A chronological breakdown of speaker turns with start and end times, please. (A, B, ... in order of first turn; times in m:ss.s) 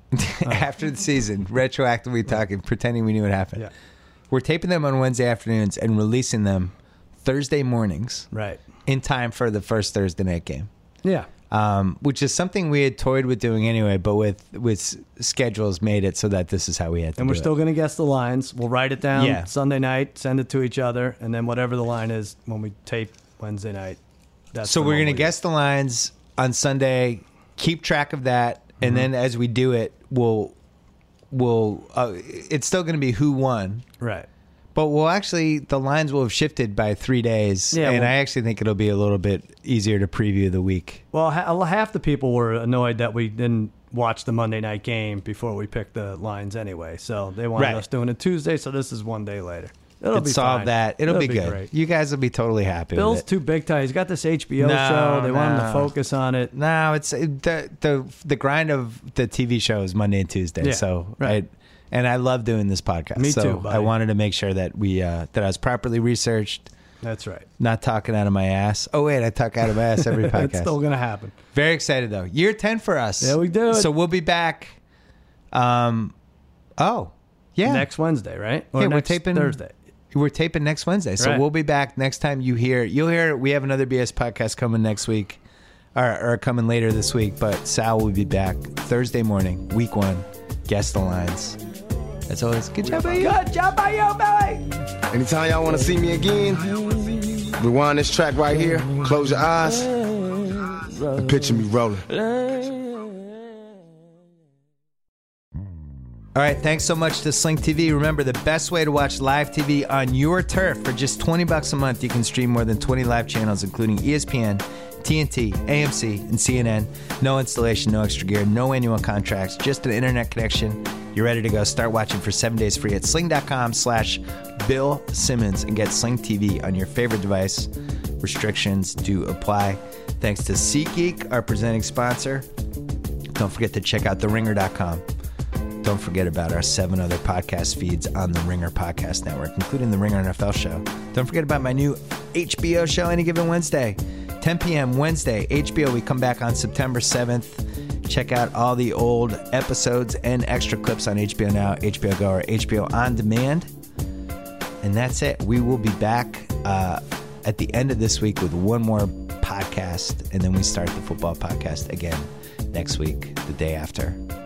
0:00.1-0:03.6 A
0:04.3-0:08.3 A
0:08.3-0:08.6 B
0:08.9-0:10.7 A
0:11.0-0:11.3 B
0:11.5-0:17.5 A
0:17.2-0:24.0 B
0:19.1-0:19.5 A
0:24.5-0:25.3 B
0:24.6-0:30.6 A
0:28.8-0:29.1 B
0:31.3-0:33.9 A
0:34.0-0:34.3 B
0:34.8-0:41.0 A
0:37.7-0:38.1 B
0:41.1-0:51.7 B
0:47.6-0:47.8 A
0:50.1-0:53.2 A
0:53.0-0:56.5 B
0:54.6-0:55.9 A
0:56.5-1:06.7 A
1:00.6-1:01.4 B
1:03.2-1:03.9 B
1:07.0-1:07.5 B
1:07.6-1:10.7 A
1:10.0-1:11.4 B
1:11.5-1:14.8 A
1:13.2-1:13.9 B
1:15.5-1:16.1 A
1:16.8-1:17.9 A
1:17.6-1:19.7 B
1:18.8-1:19.6 A
1:20.1-1:25.4 A
1:26.0-1:31.6 A
1:32.3-1:33.4 A
1:33.1-1:34.7 B
1:35.1-1:36.8 C
1:37.6-1:40.0 C
1:41.2-1:42.1 C
1:46.4-2:12.5 A
2:13.3-2:15.0 A
2:15.8-2:33.7 A
2:34.8-2:44.2 A